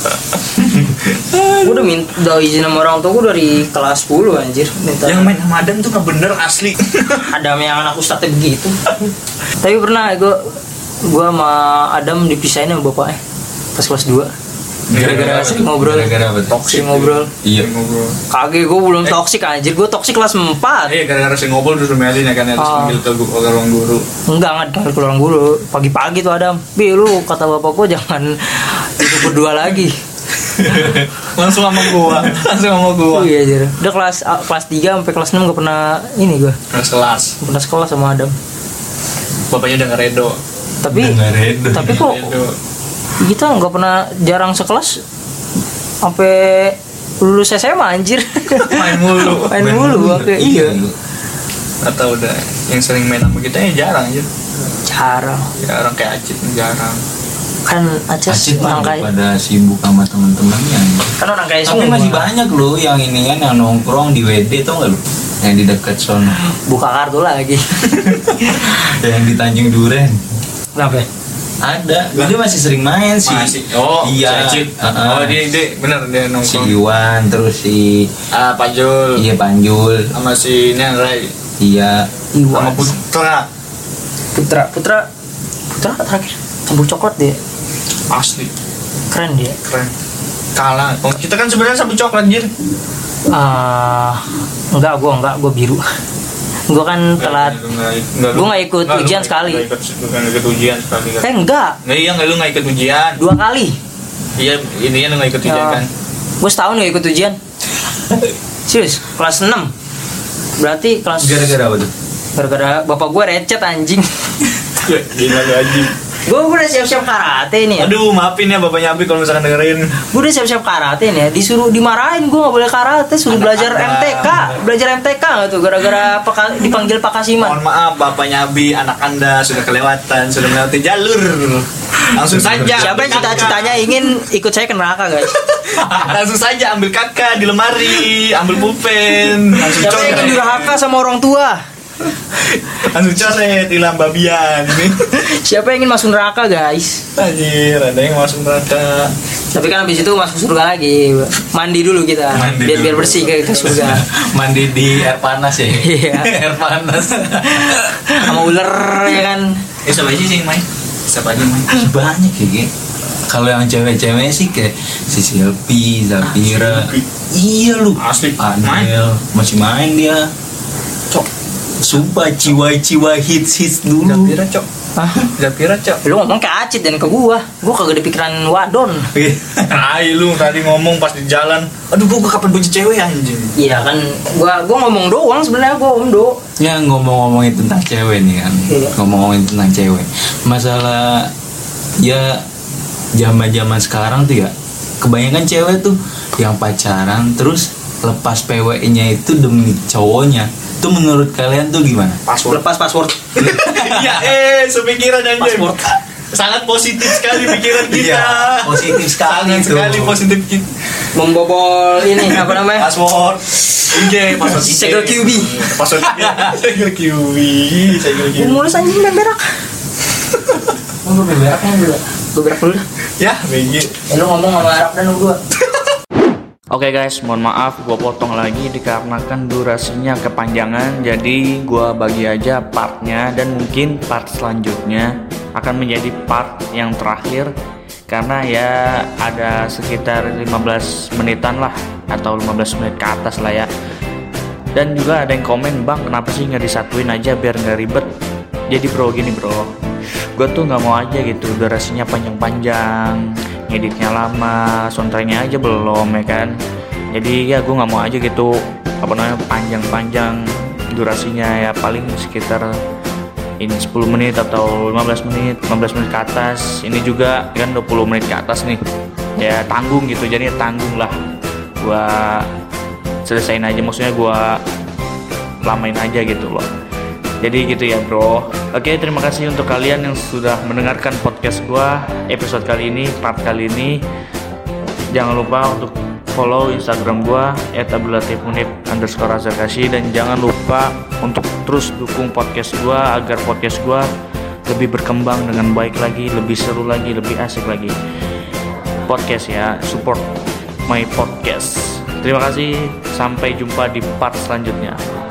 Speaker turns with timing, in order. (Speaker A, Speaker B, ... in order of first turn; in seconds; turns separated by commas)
Speaker A: 0.6-1.9, Speaker B: 1.6-5.3, Speaker A: 5.0-7.2, Speaker B: 7.3-8.8, Speaker B: 9.6-13.2, Speaker B: 13.7-14.3, Speaker A: 14.9-15.6, Speaker C: 14.9-16.6, Speaker B: 14.9-16.1, Speaker A: 16.5-18.2, Speaker B: 16.6-17.3, Speaker C: 17.4-17.7, Speaker B: 18.3-20.9, Speaker A: 20.9-24.0, Speaker B: 22.6-23.0, Speaker B: 24.3-30.0, Speaker A: 30.6-33.3, Speaker B: 33.1-36.6, Speaker A: 36.7-37.4, Speaker B: 37.4-38.3, Speaker A: 39.5-40.4, Speaker B: 40.8-41.2, Speaker C: 40.9-42.0, Speaker B: 41.7-42.3, Speaker A: 41.8-42.5, Speaker B: 43.2-45.0, Speaker B: 46.0-50.8, Speaker A: 48.5-50.0, Speaker C: 49.9-50.9, Speaker A: 51.8-54.3, Speaker B: 54.8-55.5, Speaker A: 55.6-57.0, Speaker B: 57.7-59.1, Speaker C: 58.3-66.4, Speaker B: 61.2-62.3, Speaker B: 66.6-68.2, Speaker C: 68.5-70.2, Speaker B: 70.8-71.0, Speaker C: 71.6-75.4, Speaker A: 73.2-76.7, Speaker C: 76.4-78.1, Speaker A: 78.3-79.2, Speaker C: 79.2-80.1, Speaker A: 80.1-81.3, Speaker C: 81.6-82.1, Speaker B: 82.3-82.9, Speaker A: 82.5-83.5, Speaker B: 84.3-85.1, Speaker B: 85.7-87.4, Speaker A: 88.1-88.5, Speaker B: 89.1-89.5, Speaker A: 89.6-89.9, Speaker A: 90.5-92.5, Speaker B: 93.3-95.8, Speaker B: 96.7-97.5, Speaker A: 97.2-101.2, Speaker B: 98.3-99.6, Speaker B: 101.2-101.8, Speaker A: 101.8-103.2, Speaker B: 103.2-103.8, Speaker A: 104.4-105.9, Speaker B: 105.4-105.8, Speaker B: 106.4-107.4, Speaker B: 108.7-109.7, Speaker B: 110.6-111.6, Speaker C: 111.2-111.9, Speaker B: 112.3-114.2, Speaker A: 114.8-115.9, Speaker B: 116.2-117.9, Speaker A: 117.8-119.9, Speaker B: 120.1-127.6, Speaker A: 123.3-124.6, Speaker A: 127.4-134.0, Speaker C: 132.3-133.5, Speaker B: 132.7-135.4, Speaker A: 135.4-140.8, Speaker B: 139.7-141.6, Speaker A: 142.4-145.1, Speaker B: 145.1-147.0, Speaker A: 147.2-149.1, Speaker B: 149.5-154.0, Speaker C: 152.3-158.3, Speaker B: 155.7-156.3, Speaker B: 157.5-159.6, Speaker A: 159.8-161.7, Speaker C: 161.7-162.7, Speaker C: 163.3-170.3, Speaker A: 166.2-167.0, Speaker A: 167.9-168.9, Speaker C: 171.8-174.3, Speaker A: 174.0-174.7, Speaker B: 174.9-175.3, Speaker A: 175.2-176.0, Speaker B: 176.0-179.1, Speaker C: 179.1-179.8, Speaker A: 179.7-183.5, Speaker B: 183.6-186.4, Speaker C: 186.6-191.3, Speaker B: 188.7-188.9, Speaker C: 192.0-192.4, Speaker C: 193.1-202.2, Speaker A: 202.3-202.6, Speaker B: 202.5-203.3, Speaker A: 203.4-210.7, Speaker C: 203.4-204.2, Speaker B: 205.4-205.9, Speaker C: 207.8-210.2, Speaker B: 211.1-212.9, Speaker A: 212.2-218.7, Speaker B: 213.8-215.6, Speaker B: 218.3-219.5, Speaker B: 221.0-222.8, Speaker A: 223.2-223.9, Speaker B: 224.1-225.4, Speaker D: 226.7-237.5, Speaker D: 238.1-243.7, Speaker D: 244.7-248.1, Speaker D: 248.7-249.7, Speaker D: 250.3-256.5, Speaker D: 257.1-262.8, Speaker D: 263.6-268.8, Speaker D: 269.4-271.2, Speaker D: 271.8-272.5, Speaker D: 273.2-274.6, Speaker D: 275.6-276.7, Speaker D: 277.4-284.0, Speaker D: 285.1-294.1, Speaker D: 294.7-297.9, Speaker D: 299.1-300.3, Speaker D: 300.9-305.0